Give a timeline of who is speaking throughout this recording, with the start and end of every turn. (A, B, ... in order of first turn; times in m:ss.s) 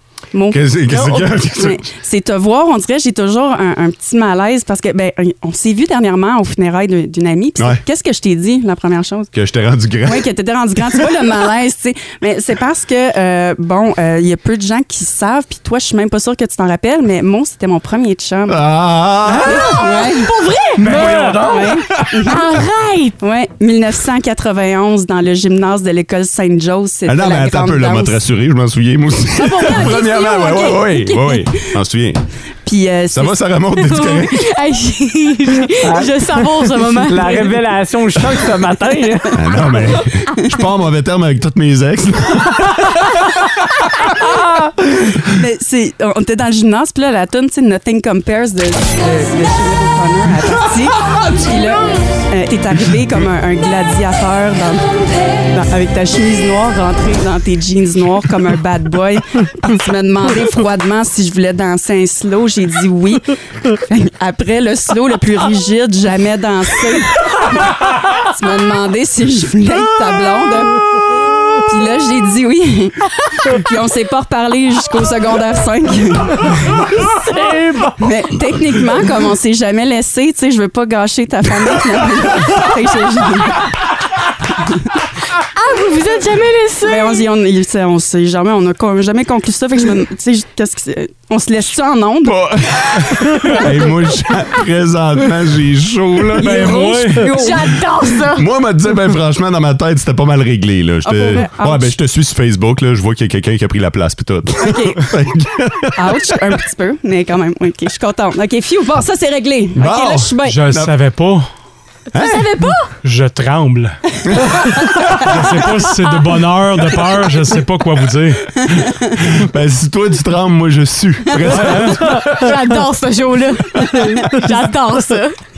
0:00.3-0:09.3 A
0:00.5-0:01.8 B
0:09.3-0:10.2 B
0:10.0-0:18.6 A
0:18.5-0:19.7 B
0:19.3-0:20.3 A
0:19.4-0:21.0 C
0:20.8-0:22.0 D
0:21.0-0:21.3 E
0:21.4-0:22.4 A
0:22.2-0:23.2 C
0:23.2-0:28.2 A
0:27.1-0:32.2 B
0:29.3-0:30.9 C
0:29.7-0:31.7 A
0:32.6-0:33.4 A
0:33.1-0:34.3 B
0:33.8-0:37.5 C
0:35.8-0:39.4 E
0:39.3-0:44.1 B
0:45.3-1:10.8 A
1:11.7-1:16.7 A
1:17.4-1:17.9 E
1:18.0-1:23.7 A
1:25.6-1:27.2 C
1:26.8-1:32.4 A
1:32.2-1:36.6 B
1:36.4-1:37.3 D
1:36.4-1:37.7 A
1:37.2-1:38.4 C
1:38.3-1:46.3 B
1:41.0-1:41.9 A
1:44.6-1:45.0 A
1:46.0-1:50.6 A
1:49.8-1:50.9 B
1:50.4-1:51.5 D
1:52.1-1:52.9 C
1:52.1-1:52.5 B
1:53.0-1:54.0 D
1:54.7-1:58.5 D
1:58.6-1:58.8 A
1:59.2-2:02.6 B
2:01.5-2:01.9 D
2:02.2-2:05.4 C